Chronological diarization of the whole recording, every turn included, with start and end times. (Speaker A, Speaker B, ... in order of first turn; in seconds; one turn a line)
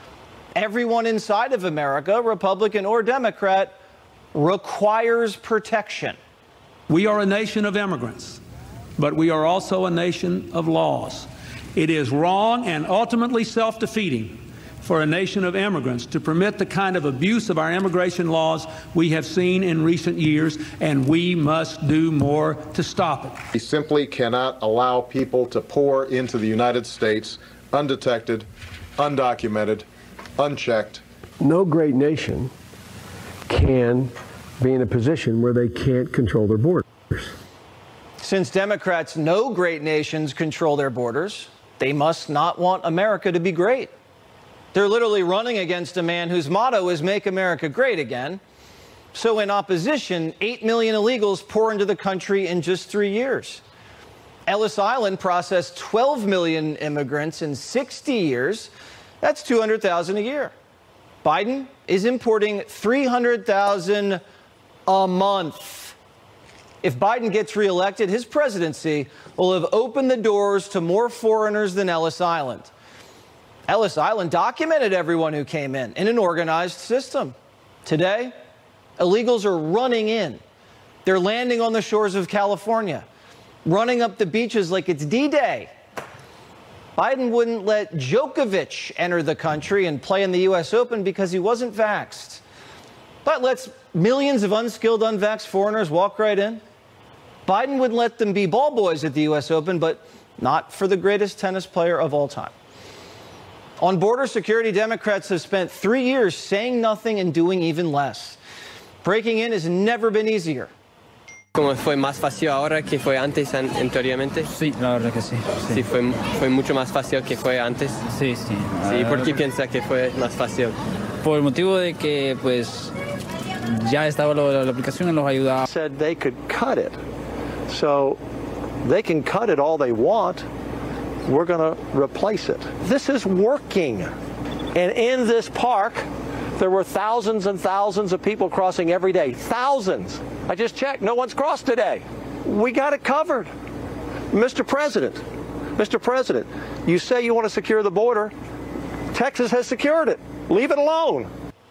Speaker A: 0.6-3.8
Speaker A: 4.3-6.2
Speaker B: 6.9-8.4
Speaker B: 9.0-23.4
Speaker C: 23.5-28.5
Speaker C: 29.0-29.9
Speaker C: 30.4-31.0
Speaker D: 31.4-32.5
Speaker D: 33.5-36.9
Speaker A: 38.2-43.9
Speaker A: 44.7-48.4
Speaker A: 49.1-53.6
Speaker A: 54.5-60.5
Speaker A: 61.2-64.2
Speaker A: 64.9-66.0
Speaker A: 66.8-72.7
Speaker A: 73.7-78.3
Speaker A: 79.0-80.4
Speaker A: 81.0-83.1
Speaker A: 83.7-85.7
Speaker A: 87.0-92.4
Speaker A: 93.2-96.6
Speaker A: 97.5-102.5
Speaker A: 103.8-108.4
Speaker A: 109.0-110.7
Speaker E: 111.5-114.5
Speaker F: 114.5-115.8
Speaker E: 115.7-118.0
Speaker F: 118.1-119.3
Speaker E: 118.8-120.8
Speaker F: 121.2-122.9
Speaker F: 123.7-125.7
Speaker G: 125.7-127.0
Speaker G: 127.7-128.2
Speaker G: 128.8-130.5
Speaker G: 131.3-134.1
Speaker G: 134.7-143.5
Speaker G: 144.3-145.2
Speaker G: 145.8-148.3
Speaker G: 149.1-151.3